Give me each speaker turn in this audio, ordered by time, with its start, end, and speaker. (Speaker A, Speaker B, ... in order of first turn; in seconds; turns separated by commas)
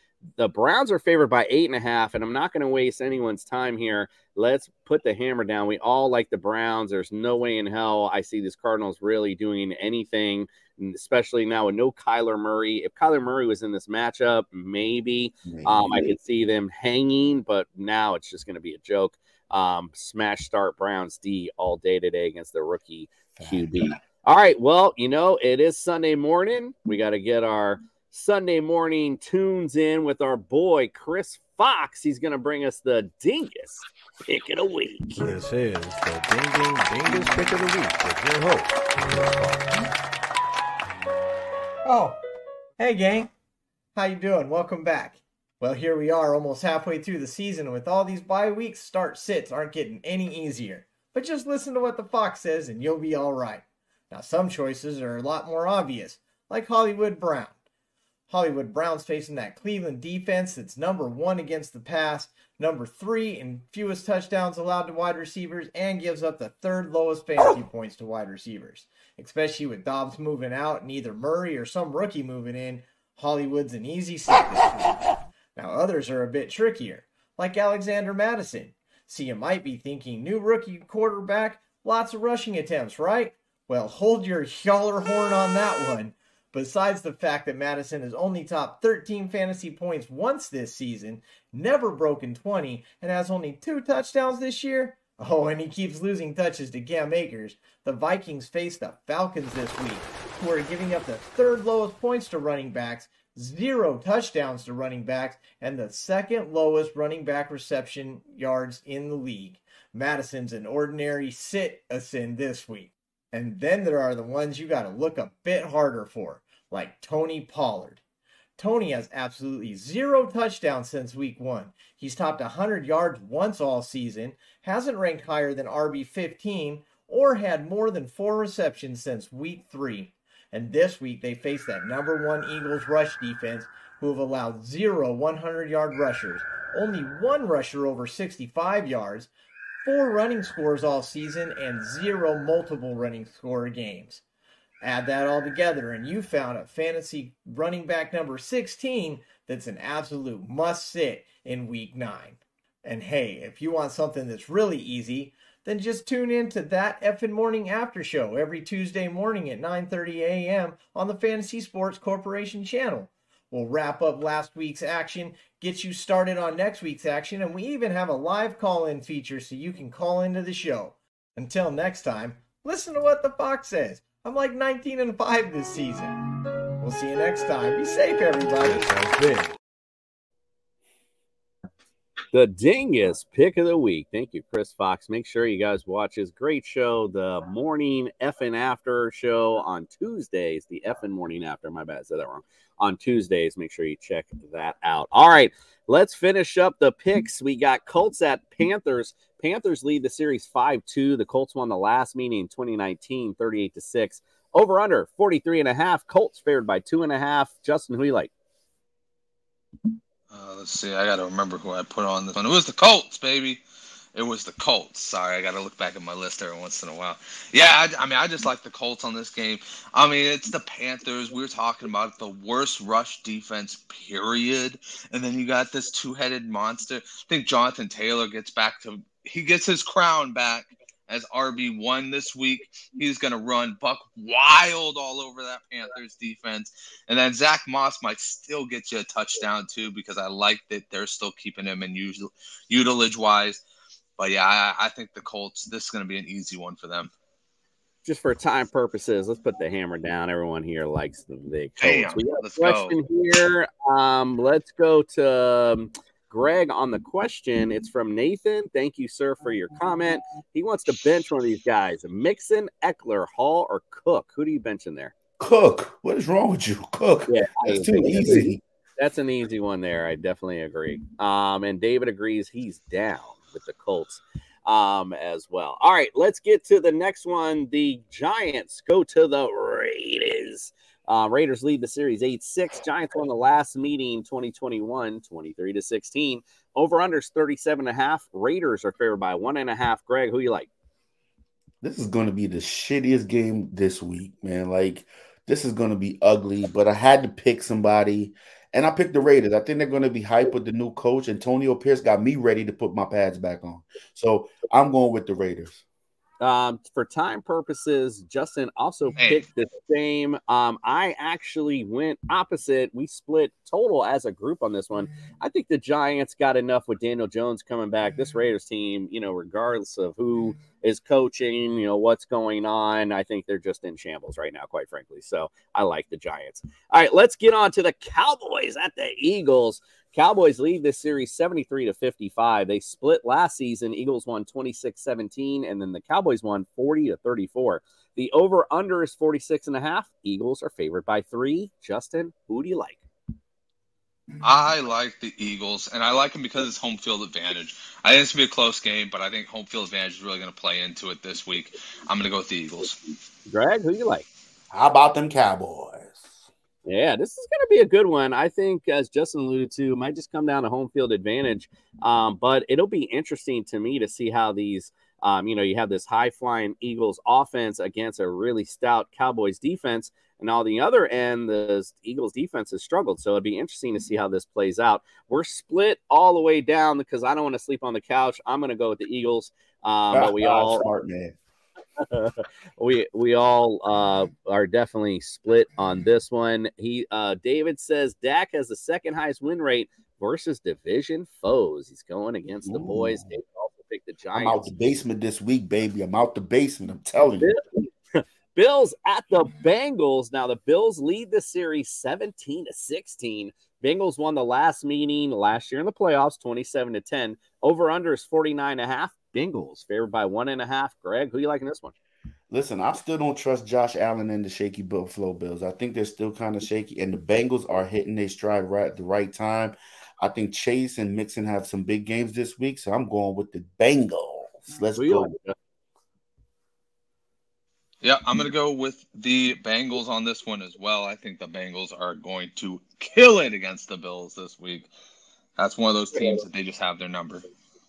Speaker A: 0.4-35.2, Speaker B: 15.4-16.2, Speaker B: 23.4-24.0, Speaker C: 35.1-39.9, Speaker D: 41.9-42.2, Speaker D: 42.8-43.3, Speaker D: 43.9-57.6, Speaker D: 58.3-118.0, Speaker D: 118.6-139.3, Speaker D: 139.8-144.2, Speaker D: 144.8-176.2, Speaker D: 176.8-179.2, Speaker C: 178.7-179.5, Speaker A: 182.3-208.3, Speaker E: 210.3-213.6, Speaker E: 214.1-243.6, Speaker E: 244.2-247.1, Speaker A: 248.0-265.1, Speaker E: 251.8-252.9, Speaker B: 265.4-268.6, Speaker A: 267.3-290.7, Speaker B: 291.8-305.8, Speaker A: 306.4-343.0, Speaker E: 344.4-353.0, Speaker A: 353.5-354.2, Speaker B: 354.7-356.5, Speaker A: 356.9-380.9, Speaker B: 380.1-381.3, Speaker A: 382.0-394.6, Speaker B: 392.7-393.3, Speaker B: 394.4-397.5, Speaker A: 397.4-411.9, Speaker B: 412.5-425.3, Speaker A: 424.9-425.5, Speaker E: 428.0-434.9, Speaker E: 435.6-437.4